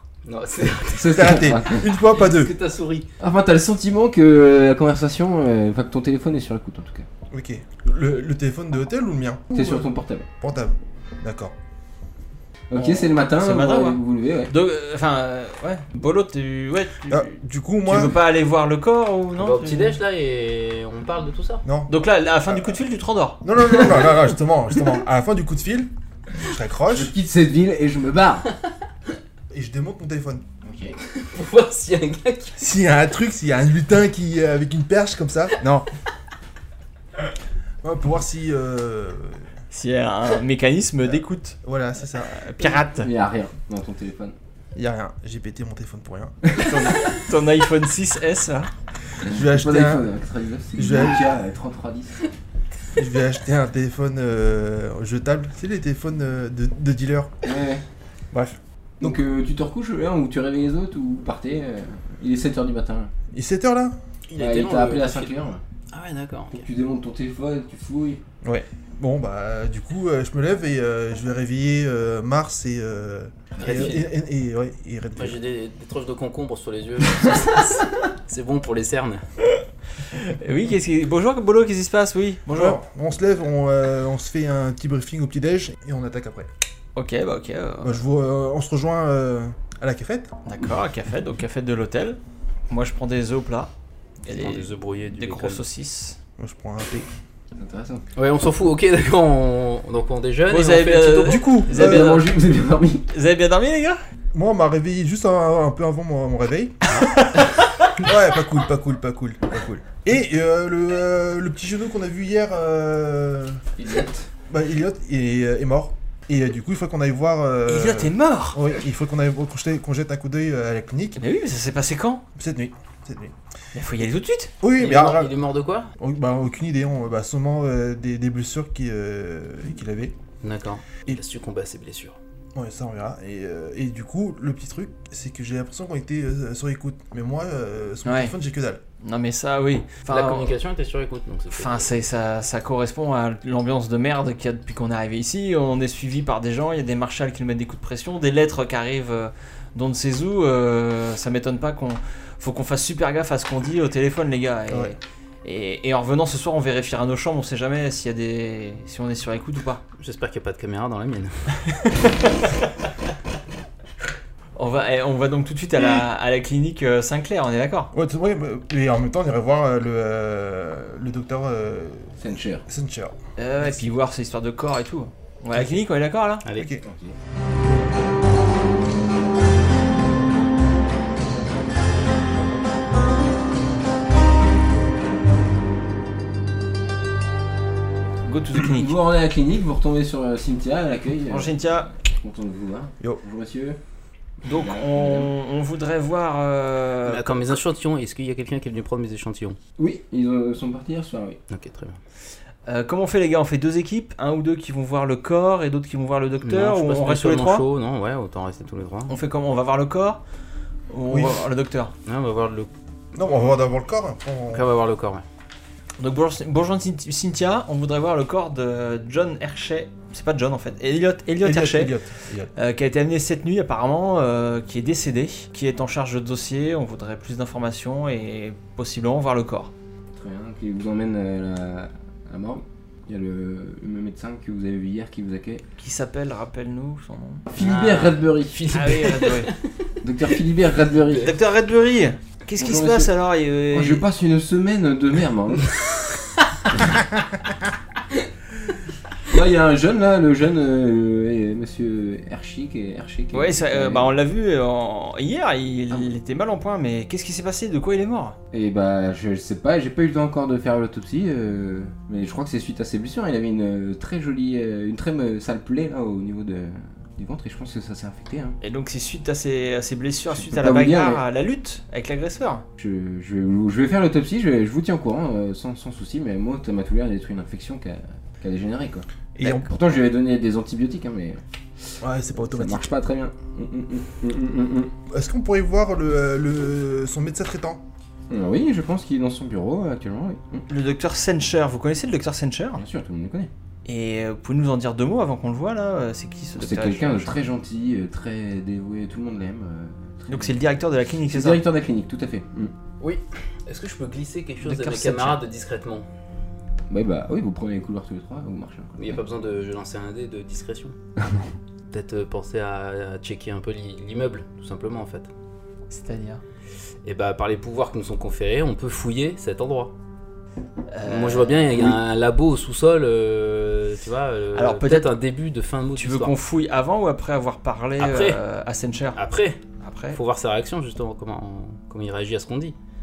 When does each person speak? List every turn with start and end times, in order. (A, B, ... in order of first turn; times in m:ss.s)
0:00.2-0:03.1 A
0:00.9-0:01.9 B
0:01.1-0:02.5 C
0:03.2-0:07.1 B
0:07.3-0:11.5 C
0:09.5-0:10.3 B
0:12.7-0:14.5 B
0:12.7-0:17.3 D
0:17.1-0:18.2 C
0:17.8-0:20.0 D
0:19.4-0:21.6 A
0:21.6-0:21.9 C
0:21.9-0:23.4 D
0:22.5-0:22.8 C
0:23.4-0:27.1 C
0:26.9-0:28.5 B
0:29.5-0:30.4 C
0:30.6-0:31.0 B
0:31.1-0:32.6 A
0:32.6-0:35.9 C
0:37.8-0:39.5 C
0:39.7-0:41.6 D
0:41.6-0:42.4 C
0:42.1-0:43.1 D
0:42.7-0:44.4 B
0:44.7-0:47.2 C
0:46.6-0:48.7 D
0:49.2-0:50.1 C
0:49.2-0:52.2 B
0:50.8-0:51.3 C
0:52.9-0:57.4 C
0:57.4-0:57.8 B
0:58.3-0:59.2 C
0:59.0-1:03.1 B
1:03.3-1:04.0 C
1:04.3-1:05.4 A
1:04.4-1:05.6 B
1:05.9-1:06.6 A
1:06.5-1:08.2 B
1:08.4-1:15.4 C
1:13.5-1:14.0 B
1:13.6-1:14.1 A
1:15.1-1:19.2 A
1:20.1-1:22.8 D
1:22.5-1:26.5 C
1:27.0-1:28.0 D
1:27.8-1:30.3 C
1:30.4-1:33.7 D
1:34.2-1:36.2 D
1:34.3-1:35.6 A
1:36.4-1:37.1 C
1:37.6-1:38.0 B
1:38.2-1:41.6 A
1:40.5-1:42.3 D
1:41.2-1:42.2 C
1:41.7-1:43.1 B
1:43.1-1:44.0 D
1:44.3-1:53.6 C
1:47.0-1:47.5 D
1:53.8-1:54.3 B
1:54.5-2:01.2 C
1:57.7-1:58.6 D
2:01.2-2:02.2 D
2:02.4-2:03.3 C
2:03.7-2:04.5 D
2:04.6-2:05.4 C
2:04.8-2:05.9 A
2:06.0-2:10.1 C
2:10.4-2:12.2 A
2:12.5-2:18.8 C
2:18.0-2:18.3 D
2:19.0-2:20.5 D
2:20.1-2:21.9 A
2:21.5-2:39.8 D
2:34.7-2:35.0 C
2:40.0-2:41.5 A
2:41.8-2:42.6 D
2:44.6-2:47.9 D
2:47.9-2:52.1 C
2:52.2-2:52.6 B
2:52.7-2:53.9 C
2:53.4-2:56.4 D
2:55.5-2:55.8 C
2:56.4-2:56.7 A
2:56.5-2:56.8 C
2:56.8-2:57.2 B
3:08.2-3:08.9 D
3:08.6-3:13.8 B
3:11.3-3:11.9 D
3:14.4-3:15.3 B
3:14.4-3:17.5 D
3:17.0-3:19.6 A
3:19.8-3:21.4 B
3:21.5-3:22.0 A
3:22.6-3:27.6 D
3:26.4-3:29.1 A
3:29.1-3:30.2 D
3:30.9-3:31.9 D
3:31.1-3:31.4 C
3:32.0-3:32.7 A
3:33.1-3:34.6 C
3:34.5-3:35.2 A
3:36.0-3:42.0 D
3:41.4-3:42.5 C
3:42.5-3:49.7 D
3:50.1-3:55.6 B
3:55.8-3:57.4 D
3:57.5-3:58.9 B
3:57.6-3:59.7 A
3:58.7-3:59.5 D
4:00.0-4:01.4 B
4:01.1-4:04.0 D
4:02.6-4:03.1 B
4:03.7-4:05.7 B
4:09.2-4:14.1 B
4:13.3-4:18.4 D
4:18.5-4:28.6 B
4:28.6-4:32.6 D
4:30.3-4:31.2 B
4:32.8-4:39.1 B
4:39.4-4:39.7 C
4:39.4-4:39.7 D
4:39.6-4:44.9 B
4:42.0-4:42.9 C
4:45.1-4:47.8 C
4:48.3-4:50.6 B
4:50.7-4:52.8 D
4:52.7-4:53.5 B
4:53.8-4:57.3 D
4:56.6-5:00.6 B
5:00.3-5:01.6 D
5:01.3-5:02.7 B
5:03.0-5:06.0 A
5:04.6-5:05.4 D
5:06.9-5:09.2 B
5:09.0-5:10.9 A
5:11.2-5:11.5 B
5:11.9-5:15.3 A
5:15.9-5:16.4 D
5:17.0-5:19.9 A
5:20.9-5:21.8 D
5:21.0-5:26.3 A
5:21.7-5:22.0 B
5:24.5-5:25.1 D
5:26.0-5:29.2 D
5:28.0-5:28.4 A
5:29.1-5:29.6 A
5:29.8-5:30.2 D
5:30.1-5:32.7 A